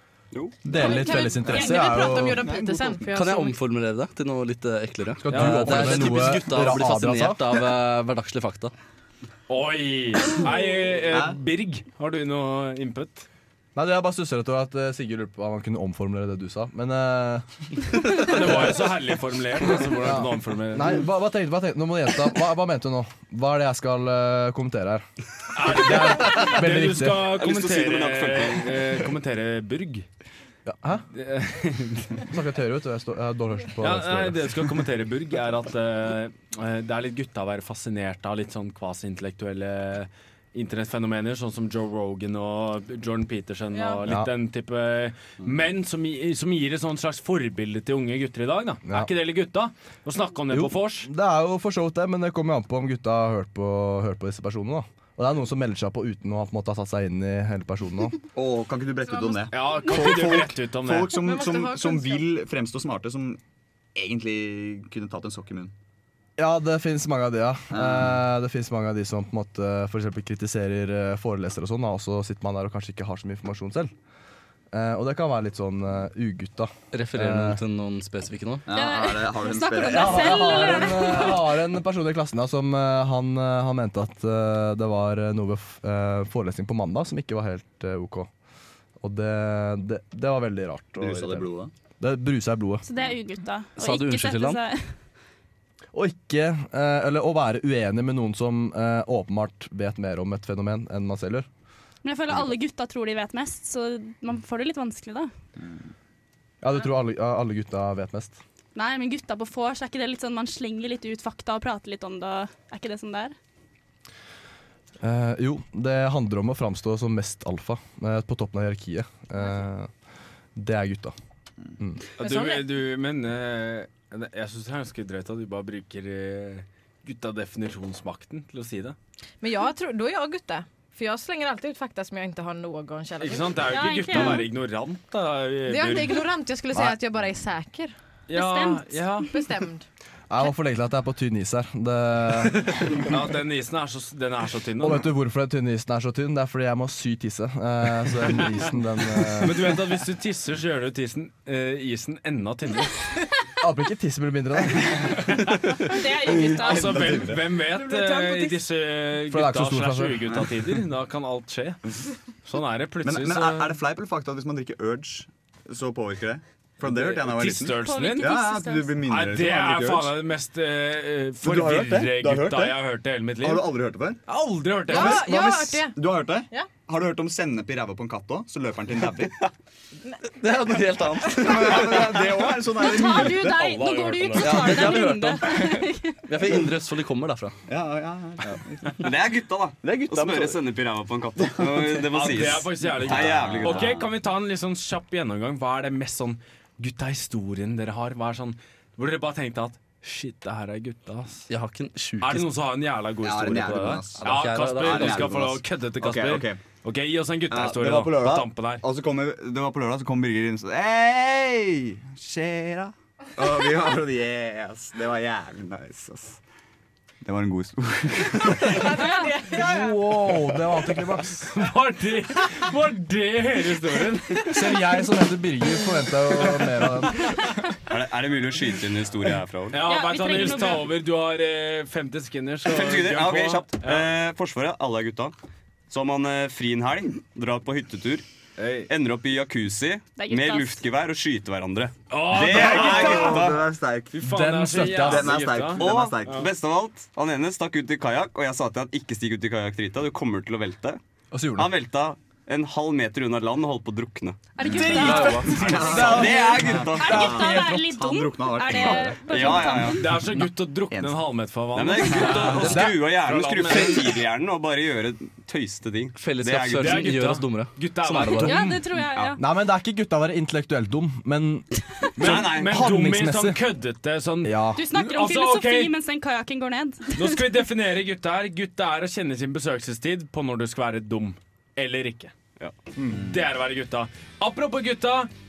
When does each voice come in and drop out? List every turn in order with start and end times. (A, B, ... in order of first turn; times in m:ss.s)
0:00.3-0:01.0 A
0:00.6-0:02.5 B
0:00.6-0:03.0 C
0:00.7-0:03.5 D
0:03.2-0:08.7 E
0:05.2-0:07.6 B
0:05.3-0:06.1 F
0:09.5-0:13.2 F
0:11.1-0:11.3 C
0:13.8-0:18.8 B
0:18.2-0:21.0 F
0:19.7-0:25.0 B
0:25.5-0:30.0 F
0:25.6-0:27.3 B
0:27.3-0:29.1 A
0:30.6-0:31.0 B
0:31.1-0:32.2 F
0:32.2-0:34.8 B
0:33.8-0:51.1 F
0:43.7-0:44.0 D
0:50.5-0:58.2 B
0:58.3-1:03.4 C
0:59.5-1:01.2 F
1:01.1-1:02.2 D
1:03.9-1:05.7 C
1:06.4-1:13.9 B
1:07.7-1:08.3 C
1:14.7-1:17.6 B
1:16.9-1:18.6 E
1:18.7-1:21.3 C
1:18.7-1:21.4 G
1:19.9-1:28.3 B
1:29.0-1:32.8 B
1:31.0-1:31.7 C
1:32.8-1:34.9 G
1:33.8-1:34.6 E
1:35.9-1:41.5 B
1:42.0-1:45.3 G
1:46.6-1:48.4 B
1:48.7-1:53.3 G
1:55.0-1:59.9 B
2:00.6-2:01.1 B
2:02.2-2:09.0 F
2:02.2-2:02.7 D
2:09.4-2:14.4 D
2:13.2-2:16.3 F
2:13.7-2:14.4 G
2:15.7-2:17.9 D
2:18.3-2:19.3 F
2:18.3-2:19.2 G
2:19.3-2:19.8 D
2:20.3-2:23.0 B
2:23.0-2:25.1 F
2:24.8-2:29.8 B
2:29.4-2:33.0 F
2:33.6-2:35.8 B
2:35.8-2:37.0 G
2:36.3-2:37.5 C
2:36.6-2:43.8 F
2:37.6-2:38.6 D
2:39.3-2:40.5 B
2:43.0-2:50.2 C
2:46.8-2:55.4 F
2:47.7-2:49.0 G
2:51.4-2:52.8 C
2:53.4-2:54.2 C
2:54.8-2:56.7 D
2:54.9-2:59.4 C
3:00.2-3:02.6 E
3:01.2-3:03.8 C
3:02.8-3:06.2 G
3:04.0-3:04.4 F
3:04.2-3:07.6 E
3:07.7-3:09.1 C
3:09.0-3:14.0 A
3:09.8-3:10.6 E
3:12.1-3:21.5 F
3:13.0-3:14.1 C
3:21.5-3:22.5 E
3:22.2-3:28.8 F
3:23.2-3:26.6 C
3:24.2-3:25.4 E
3:27.5-3:36.4 C
3:37.2-3:38.9 C
3:38.6-3:40.0 D
3:39.0-3:39.3 G
3:39.5-3:41.7 B
3:41.5-3:44.6 F
3:44.4-3:47.4 B
3:47.9-3:49.8 A
3:49.7-3:54.1 F
3:49.8-3:50.9 G
3:52.6-3:55.3 A
3:55.9-3:58.2 A
3:58.6-3:58.9 F
3:58.9-4:03.6 A
4:00.2-4:00.8 G
4:02.1-4:03.5 F
4:02.3-4:06.4 C
4:04.1-4:06.4 F
4:04.2-4:05.4 B
4:05.8-4:11.0 A
4:11.3-4:11.7 B
4:11.5-4:14.6 A
4:14.5-4:20.0 G
4:14.7-4:15.9 E
4:15.5-4:20.3 C
4:15.8-4:16.9 B
4:15.9-4:17.7 A
4:18.7-4:20.0 A
4:19.8-4:24.1 F
4:20.9-4:21.2 C
4:21.7-4:27.2 A
4:22.6-4:23.0 E
4:22.7-4:23.0 B
4:23.6-4:24.0 E
4:26.2-4:28.7 E
4:26.7-4:28.8 F
4:28.4-4:29.4 G
4:29.4-4:33.6 B
4:32.2-4:36.0 F
4:32.2-4:32.9 A
4:34.4-4:34.9 B
4:34.7-4:37.3 G
4:37.1-4:42.3 F
4:43.1-4:45.3 F